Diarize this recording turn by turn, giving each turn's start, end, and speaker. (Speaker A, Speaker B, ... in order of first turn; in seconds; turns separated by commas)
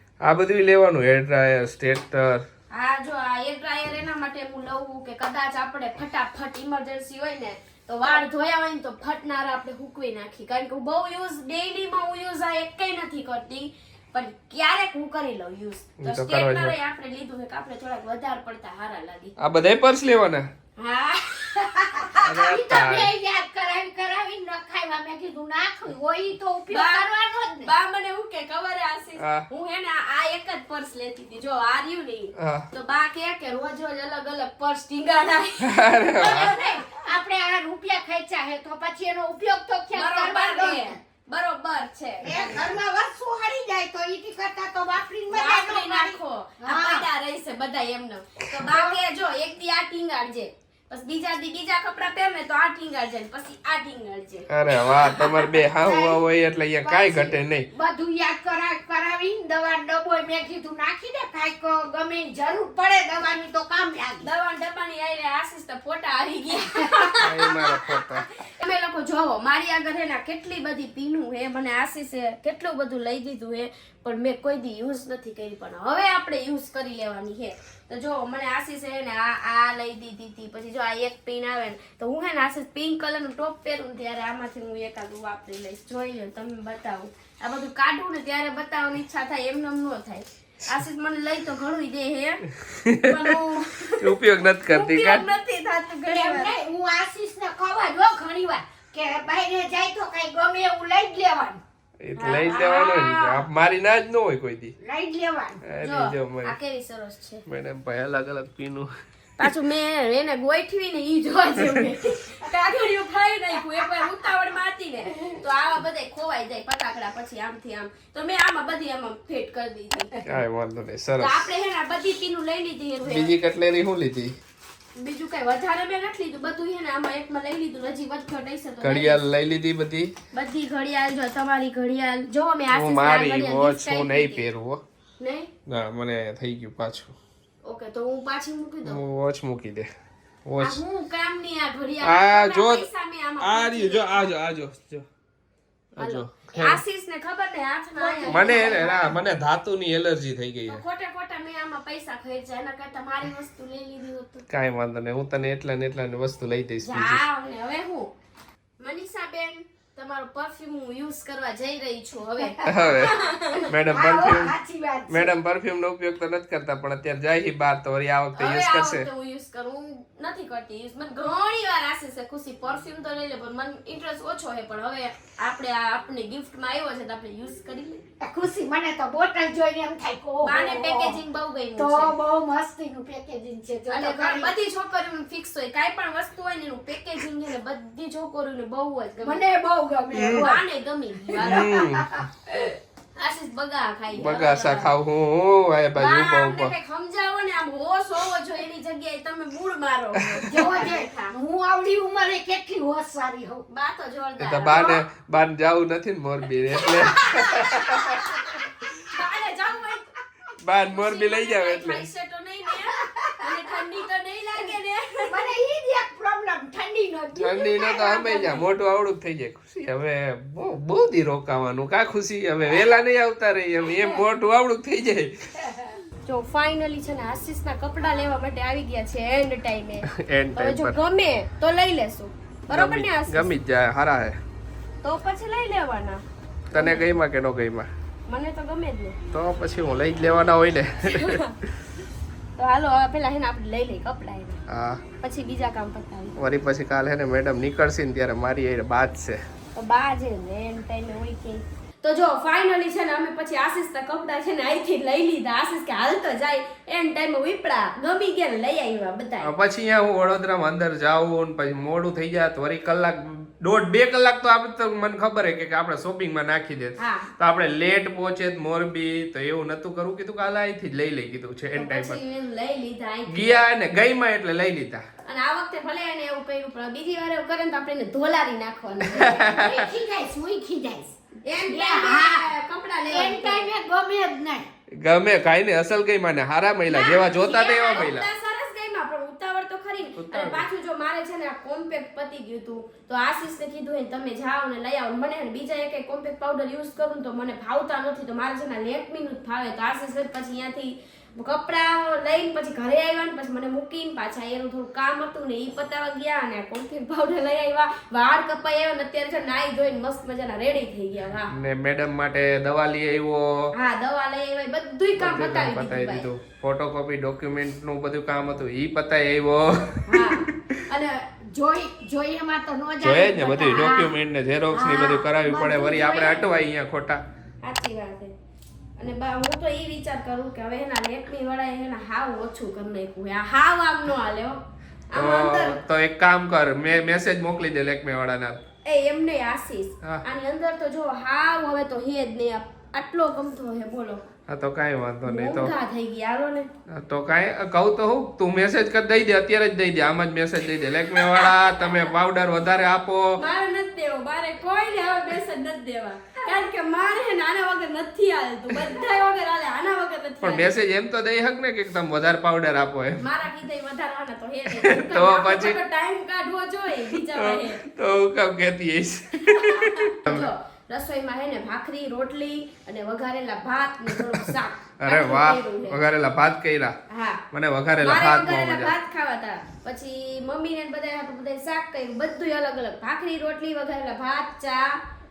Speaker A: 0.2-2.4, Speaker B: 2.7-19.3, Speaker A: 16.0-16.7, Speaker A: 19.4-20.5, Speaker B: 20.8-22.2, Speaker C: 22.1-27.7, Speaker A: 22.2-23.1, Speaker B: 26.7-36.9, Speaker A: 29.2-29.4, Speaker A: 32.4-32.7, Speaker A: 35.6-36.5, Speaker C: 36.2-41.0, Speaker B: 39.9-42.8, Speaker C: 42.2-47.0, Speaker B: 45.3-55.4, Speaker C: 48.7-49.0, Speaker A: 54.5-57.7, Speaker C: 55.2-56.2, Speaker B: 56.8-57.4, Speaker C: 57.7-64.3, Speaker B: 64.2-92.5, Speaker A: 67.2-68.3, Speaker A: 92.6-93.3, Speaker B: 93.0-96.5, Speaker A: 94.0-95.2, Speaker C: 96.0-101.6, Speaker A: 102.0-104.7, Speaker B: 102.1-103.4, Speaker C: 104.8-105.6, Speaker A: 105.6-106.5, Speaker B: 105.8-107.4, Speaker A: 107.5-108.9, Speaker B: 109.4-120.2, Speaker A: 120.2-121.5, Speaker B: 121.2-123.3, Speaker A: 123.0-124.3, Speaker B: 125.0-129.2, Speaker A: 128.8-130.1, Speaker B: 130.3-134.4, Speaker A: 132.7-134.8, Speaker B: 135.2-135.5, Speaker A: 135.7-137.1, Speaker B: 137.6-139.0, Speaker A: 138.8-139.9, Speaker A: 140.4-140.8, Speaker B: 140.6-144.3, Speaker A: 142.0-142.9, Speaker A: 143.4-145.0, Speaker A: 145.9-146.8, Speaker B: 146.0-149.1, Speaker C: 147.9-149.1, Speaker A: 148.3-150.8, Speaker B: 150.7-154.4, Speaker A: 154.5-157.2, Speaker B: 156.8-158.1, Speaker B: 158.8-163.7, Speaker A: 162.7-163.1, Speaker A: 163.7-164.5, Speaker C: 163.9-165.3, Speaker A: 165.1-169.1, Speaker B: 168.4-178.0, Speaker C: 178.2-181.2, Speaker B: 180.4-182.1, Speaker C: 181.8-184.5, Speaker B: 183.9-189.4, Speaker C: 189.2-190.6, Speaker A: 190.1-190.4, Speaker B: 190.3-191.8, Speaker C: 191.2-192.3, Speaker A: 191.4-192.2, Speaker B: 193.2-194.9, Speaker A: 194.1-196.7, Speaker B: 195.9-201.3, Speaker C: 200.4-203.6, Speaker B: 203.7-205.0, Speaker A: 204.4-208.2, Speaker B: 206.8-210.1, Speaker A: 210.6-212.1, Speaker B: 210.7-215.4, Speaker C: 213.0-213.5, Speaker C: 215.2-218.1, Speaker A: 217.3-225.3, Speaker B: 217.9-218.7, Speaker C: 225.6-225.9, Speaker B: 226.3-233.5, Speaker A: 230.1-230.9, Speaker A: 232.7-234.4, Speaker B: 235.0-236.2, Speaker A: 236.7-237.9, Speaker B: 236.7-237.1, Speaker B: 238.3-239.2, Speaker A: 239.3-241.4, Speaker B: 241.1-241.5, Speaker B: 242.6-244.6, Speaker A: 244.7-245.0, Speaker B: 245.2-246.3, Speaker A: 246.4-249.4, Speaker B: 249.8-259.5, Speaker A: 259.4-272.2, Speaker B: 267.0-267.3, Speaker B: 271.8-273.6, Speaker A: 273.3-275.0, Speaker B: 275.2-279.7, Speaker A: 279.1-279.8, Speaker C: 279.4-282.5, Speaker B: 281.4-283.7, Speaker C: 283.1-284.7, Speaker A: 285.0-288.2, Speaker B: 286.9-311.5, Speaker A: 290.1-290.6, Speaker A: 311.5-313.7, Speaker B: 313.8-316.3, Speaker A: 315.2-320.5, Speaker B: 320.1-321.1, Speaker C: 321.4-324.1, Speaker A: 323.0-327.2, Speaker C: 324.7-326.4, Speaker B: 327.6-328.3, Speaker B: 329.0-335.8, Speaker A: 335.1-338.6, Speaker B: 338.8-344.2, Speaker A: 344.5-345.7, Speaker B: 345.2-346.7, Speaker A: 346.9-353.4, Speaker B: 351.4-352.0, Speaker B: 353.4-360.7, Speaker A: 360.4-363.2, Speaker B: 363.2-367.8, Speaker A: 364.8-365.8, Speaker A: 367.3-370.5, Speaker B: 369.4-376.0, Speaker A: 375.0-376.9, Speaker B: 377.1-377.4, Speaker A: 377.5-378.9, Speaker B: 378.0-385.0